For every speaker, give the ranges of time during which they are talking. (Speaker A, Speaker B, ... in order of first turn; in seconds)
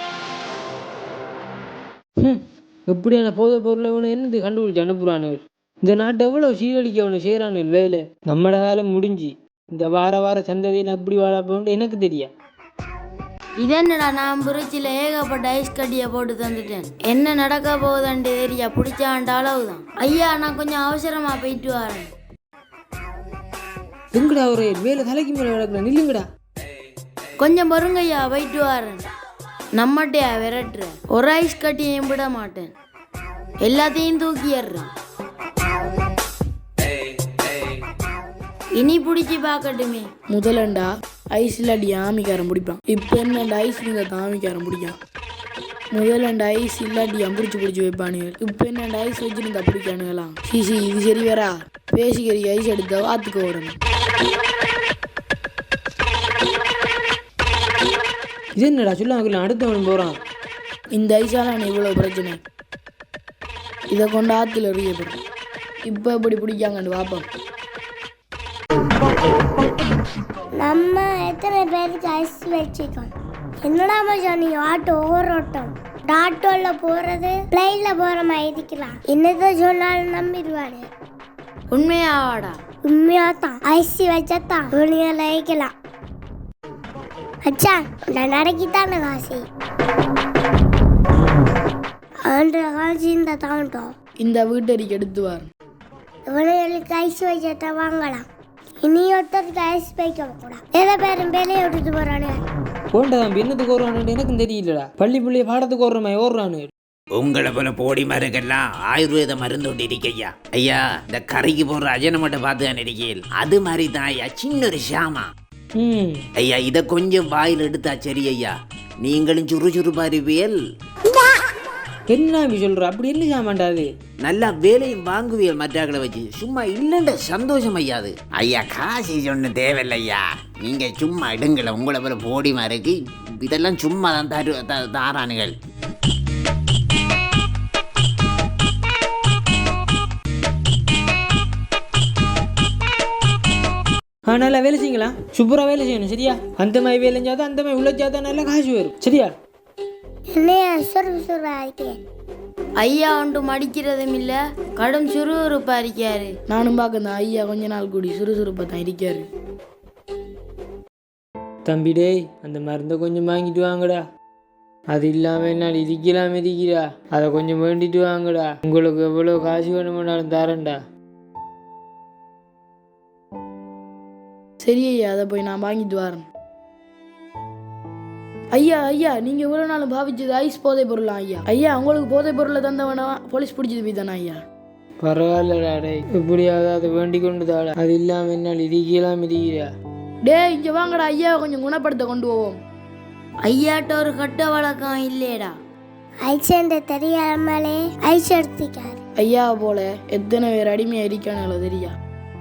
Speaker A: 2.2-12.3, 24.1-26.3, 58.5-60.2, 102.9-106.7, 115.8-116.2, 122.1-123.9, 144.2-149.3, 161.6-164.0, 164.9-170.8, 185.0-189.7
Speaker B: 13.6-22.1, 27.4-29.0, 29.8-32.7, 33.6-34.9, 38.8-40.1, 81.7-82.5, 152.8-156.3, 193.4-195.5
Speaker C: 40.3-45.0, 45.9-53.8, 60.9-62.4, 63.9-65.2, 65.8-67.2, 94.2-95.5, 156.5-159.3, 174.6-176.2, 178.5-184.4, 190.2-192.6, 199.2-201.9
Speaker D: 70.5-80.9, 82.8-85.7, 87.4-89.5, 92.2-93.9, 96.3-98.2, 98.8-102.4, 150.3-152.0, 196.2-199.0
Speaker E: 107.1-115.3, 116.4-120.6, 124.2-135.5